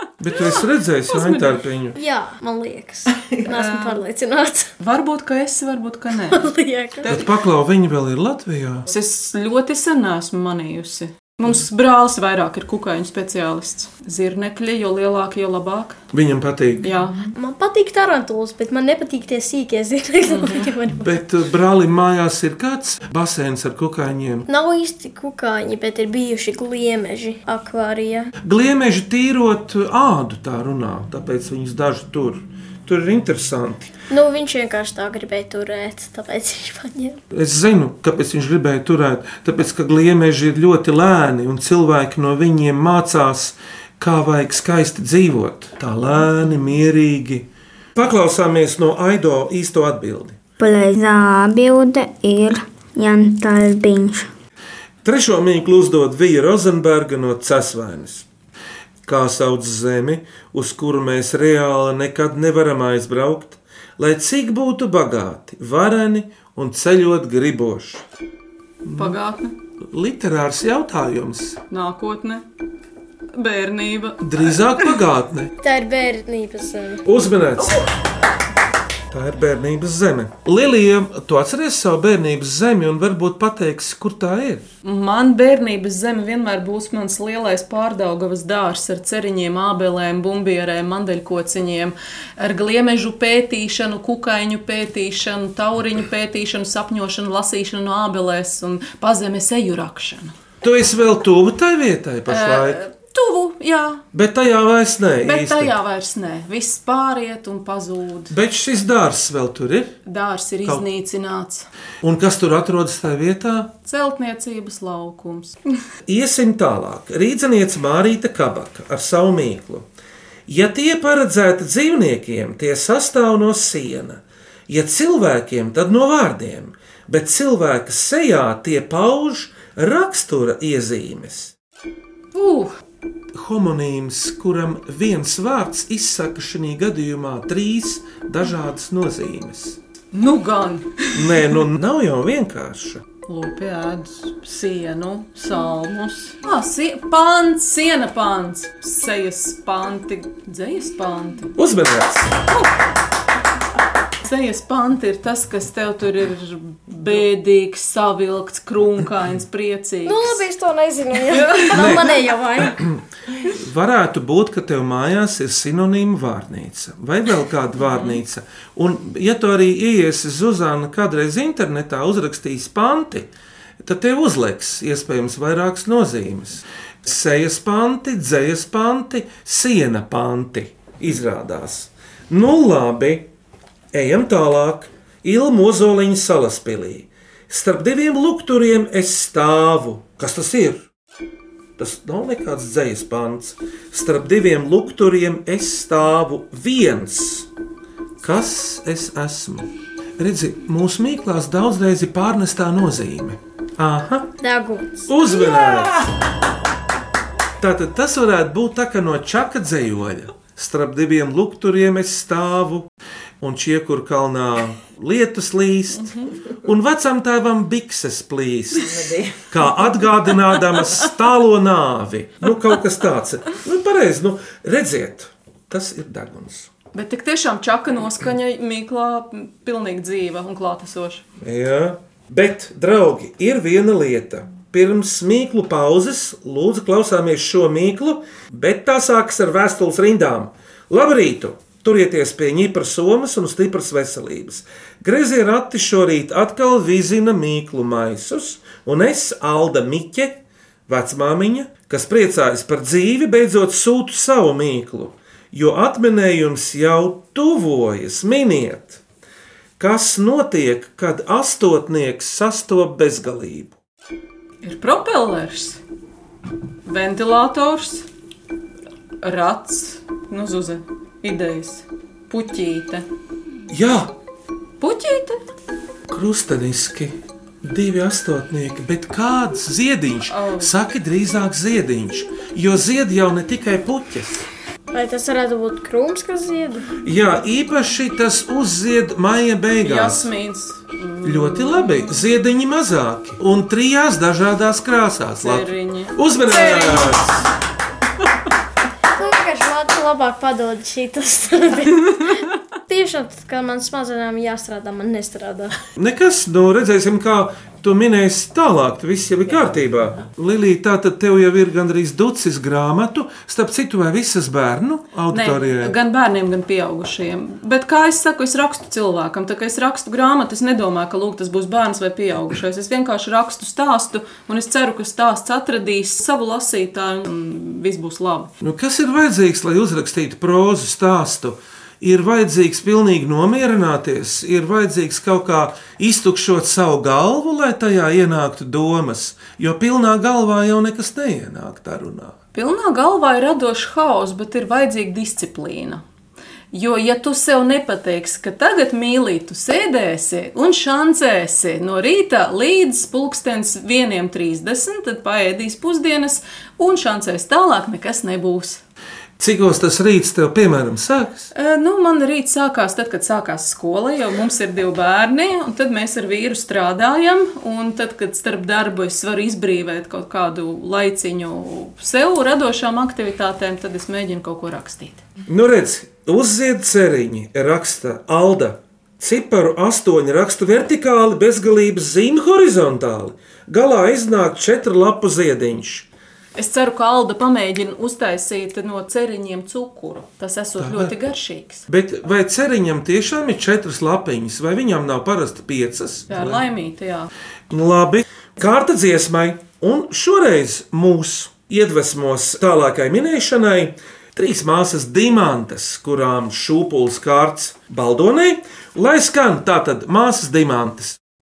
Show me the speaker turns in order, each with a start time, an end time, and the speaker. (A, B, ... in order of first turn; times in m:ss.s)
0:00.2-0:02.0 A
0:01.1-0:01.6 B
0:01.9-0:04.7 C
0:03.5-0:04.0 B
0:04.8-0:06.5 B
0:06.3-0:07.2 C
0:07.1-0:08.9 A
0:08.9-0:16.0 B
0:16.1-0:16.9 A
0:16.8-0:17.2 B
0:17.3-0:21.2 C
0:20.3-0:20.7 B
0:21.0-0:24.5 A
0:24.5-0:28.3 C
0:28.4-0:33.9 A
0:34.1-0:37.2 C
0:37.3-0:50.4 A
0:50.6-0:54.3 D
0:55.0-0:58.3 A
0:59.0-1:08.0 A
1:08.8-1:09.2 A
1:08.9-1:09.5 B
1:09.8-1:11.6 A
1:11.7-1:12.4 B
1:13.3-1:14.9 B
1:14.2-1:15.5 A
1:15.6-1:17.0 C
1:17.0-1:17.8 A
1:19.1-1:24.6 A
1:24.8-1:40.3 B
1:40.6-1:42.8 A
1:42.3-1:44.0 B
1:44.1-1:45.7 A
1:45.2-1:48.3 B
1:48.3-1:50.0 A
1:50.0-1:51.7 B
1:52.0-1:53.7 A
1:53.8-1:55.6 B
1:56.1-1:59.9 A
2:00.5-2:11.5 A
2:12.3-2:12.7 B
2:13.3-2:19.8 A
2:20.1-2:21.6 B
2:21.1-2:23.0 A
2:23.3-2:31.5 B
2:31.6-2:32.4 A
2:34.2-2:40.4 B
2:40.0-2:42.8 C
2:41.3-2:42.1 B
2:41.7-2:53.3 A
2:47.9-2:48.2 B
2:53.8-3:03.3 A
3:03.9-3:10.9 A
3:11.8-3:17.5 A
3:18.2-3:24.3 A
3:24.4-3:25.2 C
3:25.1-3:26.0 A
3:27.6-3:32.9 A
3:33.4-3:46.7 A
3:36.0-3:36.3 B
3:46.9-3:51.2 B
3:51.4-4:19.0 A
4:19.8-4:23.8 A
4:24.6-4:25.8 B
4:26.8-4:28.0 B
4:29.2-4:33.0 B
4:33.7-4:34.1 A
4:34.8-4:35.4 B
4:36.1-4:44.4 A
4:40.3-4:40.7 B
4:44.9-4:46.9 C
4:47.0-4:50.3 A
4:49.8-4:52.2 B
4:51.2-4:57.5 A
4:55.4-4:57.2 B
4:59.1-5:05.8 C
5:06.0-5:16.0 A
5:15.3-5:28.5 B
5:28.6-5:42.3 A
5:42.5-5:46.0 B
5:46.7-5:58.8 B
5:59.4-6:01.5 A
6:01.5-6:15.2 B
6:15.5-6:26.1 A
6:26.6-6:31.8 B
6:30.8-6:31.1 A
6:31.9-6:36.6 A
6:36.3-6:37.3 B
6:37.7-6:51.2 A